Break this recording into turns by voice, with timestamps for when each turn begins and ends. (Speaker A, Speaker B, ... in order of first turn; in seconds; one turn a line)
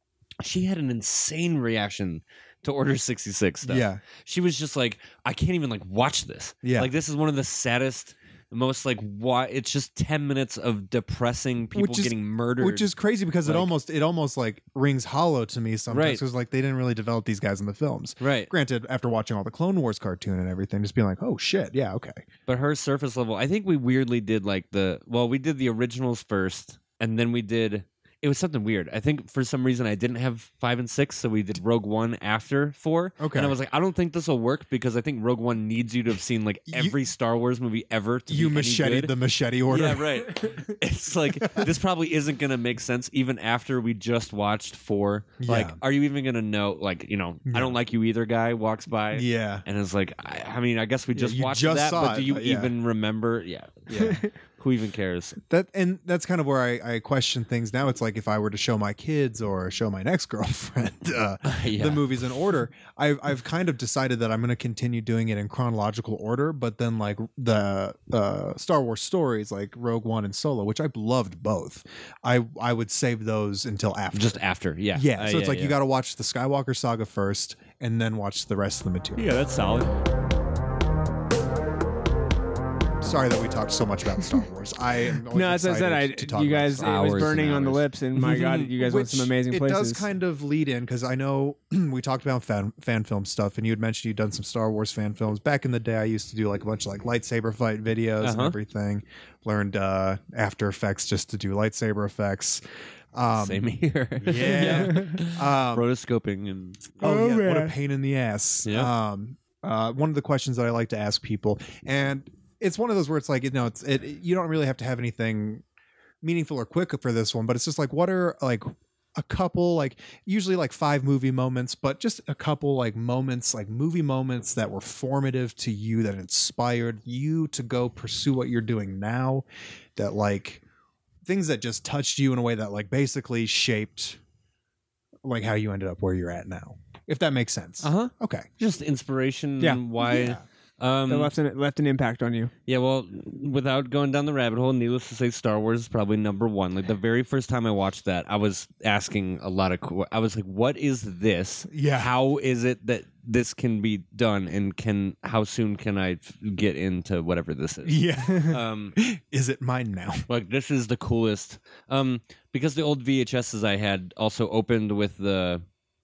Speaker A: 0.4-12.9
Speaker B: 3.6-4.0
Speaker B: 6.6-6.9
Speaker B: 11.7-22.2
Speaker A: 13.4-13.7
Speaker A: 15.9-16.2
Speaker A: 18.2-18.5
Speaker A: 22.5-39.1
Speaker B: 33.2-33.5
Speaker B: 36.7-37.0
Speaker B: 38.3-40.4
Speaker A: 39.7-55.4
Speaker B: 41.4-41.7
Speaker B: 45.4-45.8
Speaker B: 47.5-47.8
Speaker B: 49.1-49.6
Speaker B: 51.1-52.7
Speaker B: 53.9-54.2
Speaker B: 55.5-74.4
Speaker A: 61.4-62.0
Speaker A: 74.1-75.7
Speaker B: 74.9-79.3
Speaker A: 79.2-79.9
Speaker B: 83.0-87.3
Speaker C: 85.3-90.0
Speaker A: 86.8-88.7
Speaker B: 88.8-102.6
Speaker A: 98.2-98.5
Speaker B: 103.1-103.6
Speaker A: 103.3-107.0
Speaker B: 104.2-105.8
Speaker C: 104.6-105.1
Speaker C: 107.0-107.7
Speaker B: 107.0-115.6
Speaker B: 116.2-130.6
Speaker B: 131.2-134.2
Speaker B: 135.2-138.5
Speaker A: 137.8-141.3
Speaker B: 140.0-140.4
Speaker C: 141.1-142.5
Speaker A: 142.7-159.0
Speaker B: 151.7-152.1
Speaker B: 157.8-160.3
Speaker A: 160.3-165.6